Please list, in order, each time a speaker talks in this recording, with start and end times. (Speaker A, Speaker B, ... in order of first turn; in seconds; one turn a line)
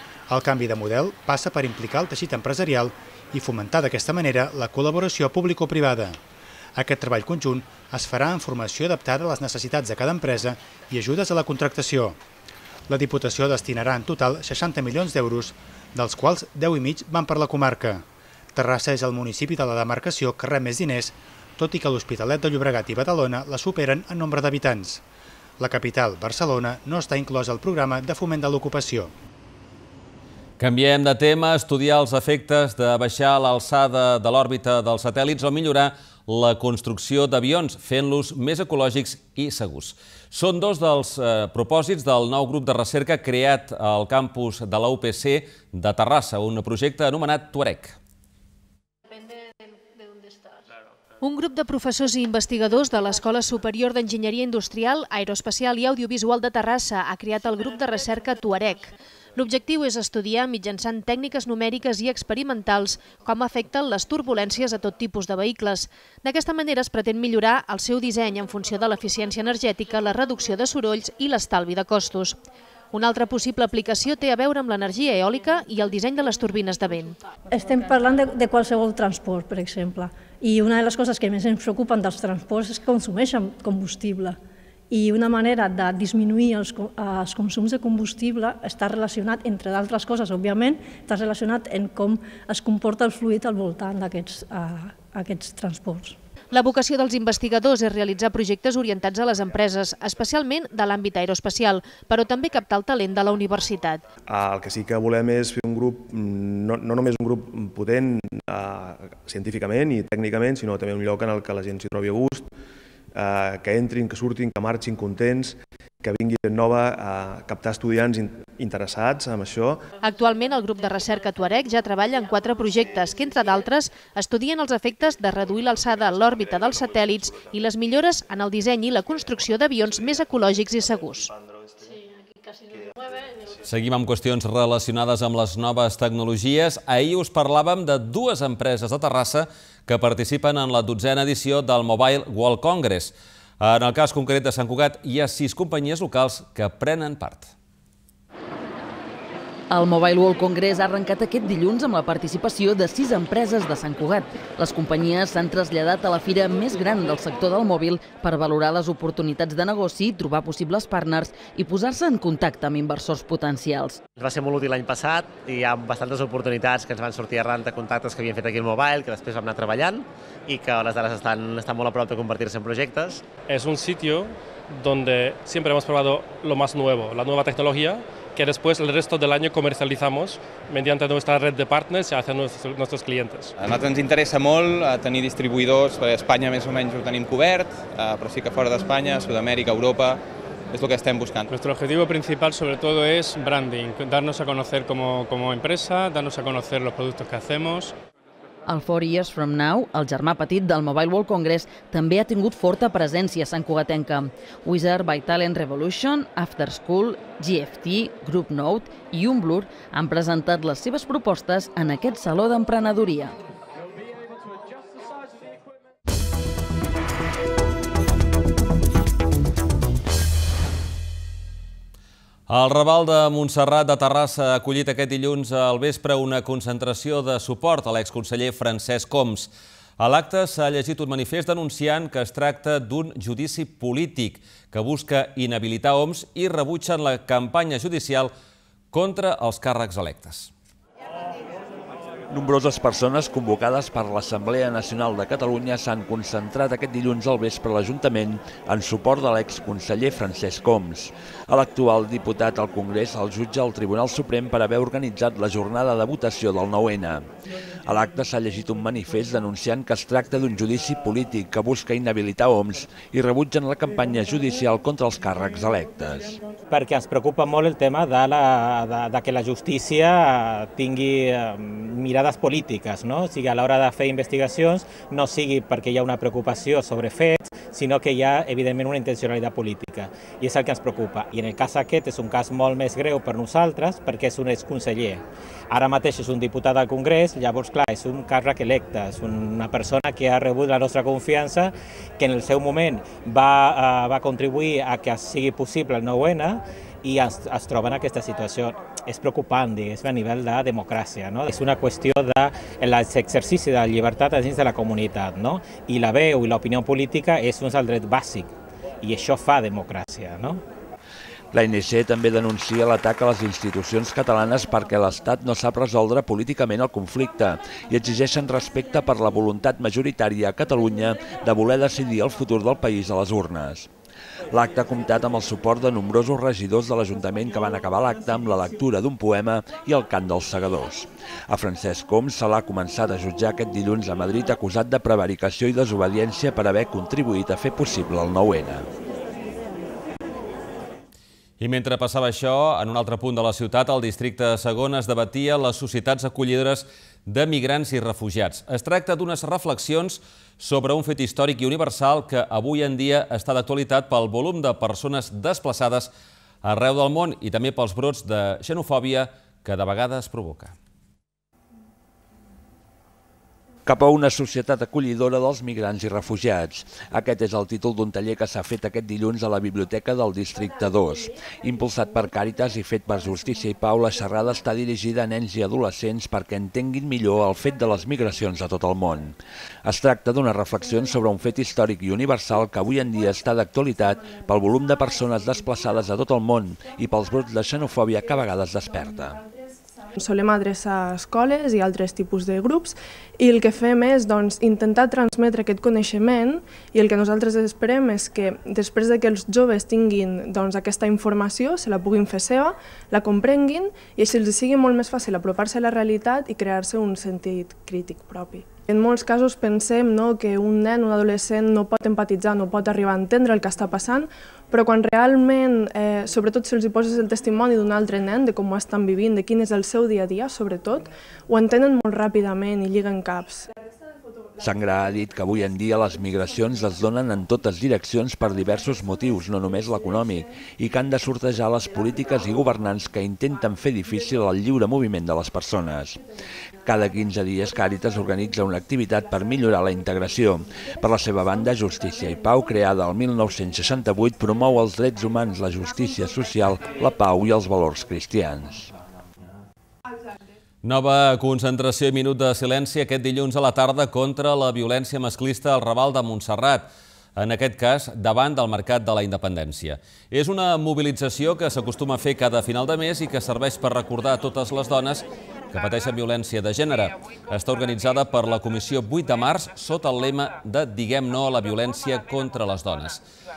Speaker A: 0.3-6.2
Speaker A: 6.8-12.2
Speaker A: 12.9-25.0
Speaker A: 25.6-29.1
Speaker B: 30.6-48.0
Speaker C: 51.2-72.4
Speaker C: 72.9-77.2
Speaker D: 77.5-84.4
Speaker D: 84.9-96.2
Speaker C: 96.5-104.0
Speaker E: 104.3-112.5
Speaker E: 113.1-119.8
Speaker C: 120.0-131.3
Speaker B: 133.7-147.5
Speaker F: 149.7-164.0
Speaker G: 164.2-173.3
Speaker H: 173.4-183.5
Speaker I: 183.6-191.5
Speaker H: 191.5-197.9
Speaker F: 198.7-213.4
Speaker B: 222.5-238.3
Speaker B: 238.9-240.5
Speaker J: 242.3-257.3
Speaker J: 257.9-266.4
Speaker K: 266.7-310.6
Speaker J: 311.5-323.9
Speaker J: 324.5-338.9
Speaker B: 341.6-356.1
Speaker B: 356.6-360.7
Speaker J: 363.9-389.4
Speaker L: 390.2-423.7
Speaker J: 424.6-436.2
Speaker J: 436.9-448.9
Speaker B: 450.8-473.2